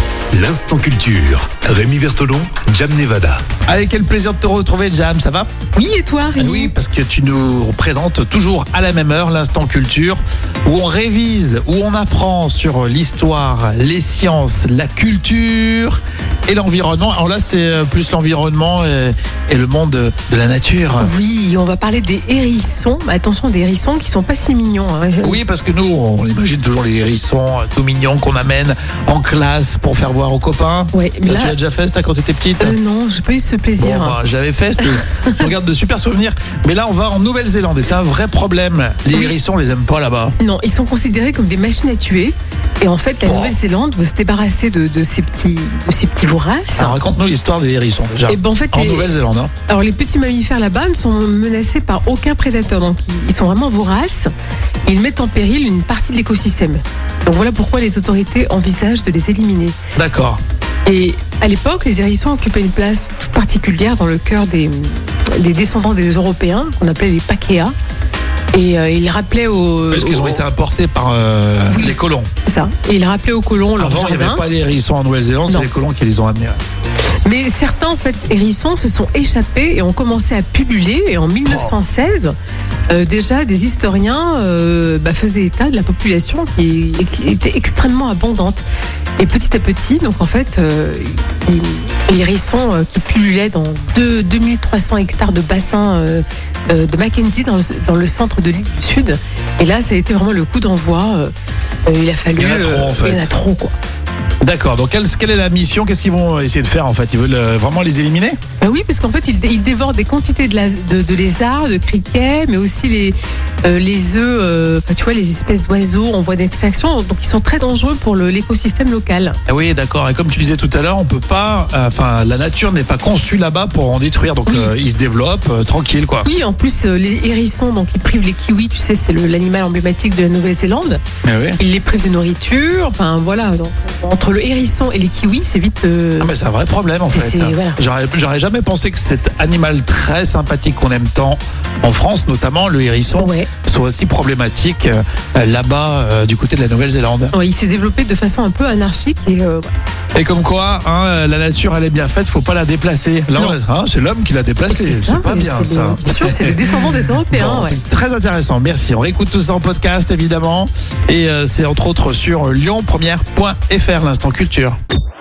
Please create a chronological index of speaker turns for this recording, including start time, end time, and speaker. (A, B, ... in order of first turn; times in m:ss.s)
0:00.3-0:03.4 A
0:03.6-0:05.5 B
0:05.7-0:06.7 C
0:06.4-0:21.1 B
0:21.0-0:25.4 C
0:25.2-0:32.8 B
0:30.9-0:31.5 C
0:32.6-0:34.2 C
0:33.8-0:40.4 B
0:34.9-0:35.5 C
0:40.4-0:47.0 C
0:43.2-0:43.5 B
0:46.8-0:49.5 B
0:48.3-0:49.1 C
0:49.7-0:54.3 C
0:54.8-0:59.8 C
0:59.9-1:00.4 B
1:00.8-1:07.7 C
1:08.5-1:10.4 C
1:09.9-1:12.3 B
1:11.7-1:14.4 C
1:13.8-1:16.6 B
1:17.2-1:22.3 C
1:21.4-1:21.7 B
1:22.9-1:28.6 C
1:29.2-1:41.3 C
1:41.8-1:43.7 C
1:42.3-1:43.3 B
1:44.4-1:48.4 B
1:48.6-1:59.4 C
1:59.5-2:06.3 B
2:04.5-2:04.7 C
2:06.2-2:11.0 C
2:11.2-2:11.6 B
2:11.6-2:16.3 C
2:16.2-2:27.3 B
2:17.1-2:17.8 C
2:23.2-2:23.5 C
2:27.3-2:29.7 C
2:30.1-2:44.8 B
2:34.7-2:37.8 C